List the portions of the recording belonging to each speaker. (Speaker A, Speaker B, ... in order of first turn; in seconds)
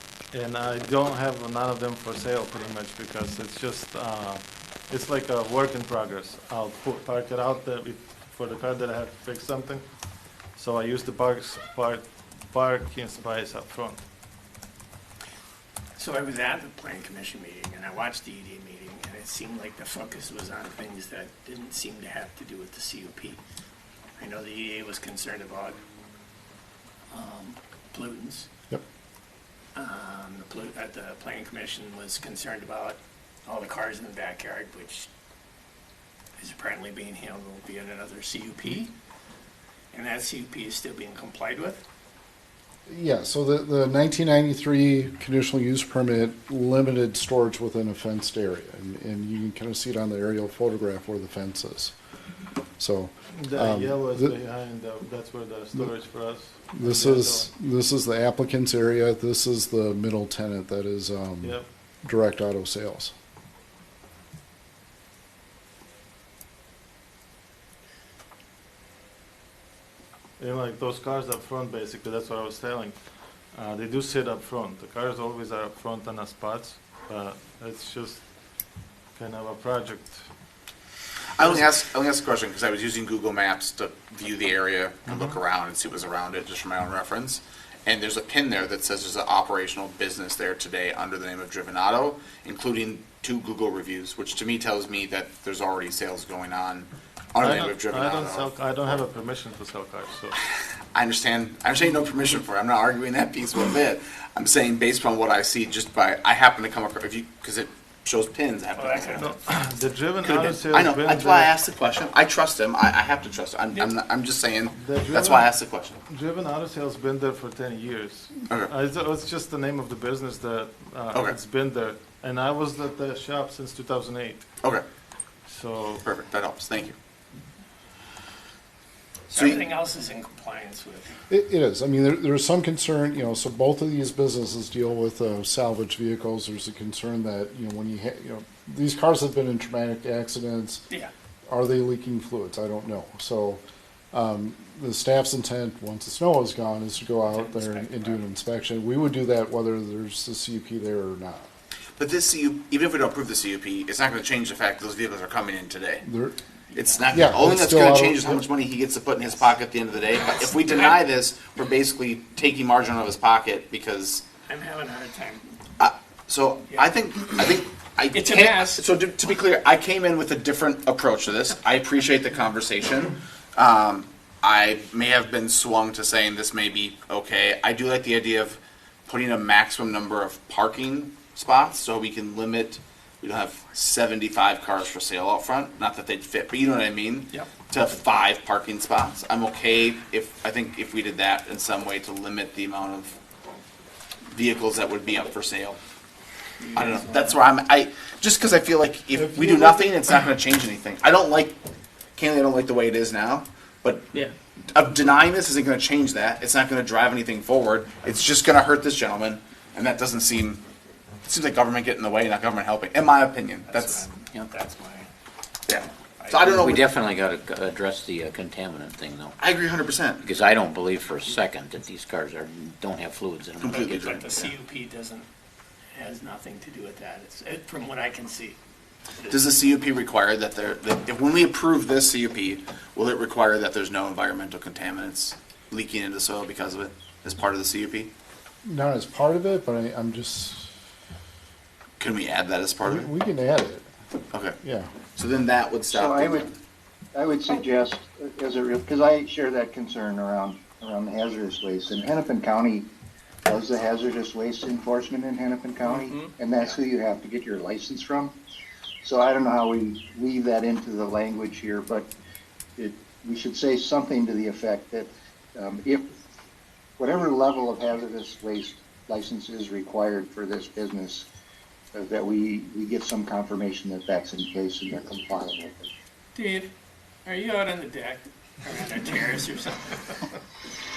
Speaker A: 0.3-9.8, 10.6-14.0, 53.4-57.5, 70.4-72.9, 73.5-78.2, 79.2-80.2, 85.1-85.4, 97.4-100.4, 109.2-111.5, 114.7-115.5, 116.1-124.4, 125.5-126.0
Speaker B: 16.0-23.4, 24.2-25.8, 27.1-28.5, 29.7-35.1, 36.4-38.9, 39.9-41.8, 108.7-109.3, 129.3-131.2, 147.3-148.2, 156.7-157.2, 160.6-160.9, 164.5-165.5, 168.1-168.8, 196.6-197.4, 213.7-215.1, 216.2-216.5, 223.7-225.3, 225.9-228.6, 276.3-276.7, 277.2-280.3
Speaker C: 42.9-51.9, 52.8-54.4, 56.7-63.1, 131.3-140.8, 141.5-143.6, 144.1-151.5, 156.0-156.3, 157.1-158.4, 238.6-240.7, 242.8-243.9, 244.6-244.9
Speaker D: 81.3-99.0, 100.9-109.3, 110.2-116.0, 126.0-126.9, 129.3-129.6, 152.0-156.0, 156.7-164.2, 165.8-193.2, 194.3-195.8, 196.7-201.5, 202.2-204.1, 204.7-210.6, 211.3-214.0, 215.7-216.8, 219.4-220.2, 223.6-224.5, 229.3-238.1, 242.0-243.1, 244.3-244.6, 245.2-246.5
Speaker E: 216.3-219.3, 220.2-223.9
Speaker F: 245.9-246.5, 247.1-252.9, 253.4-258.4, 259.0-262.1, 262.8-266.1, 267.0-271.3, 271.9-275.9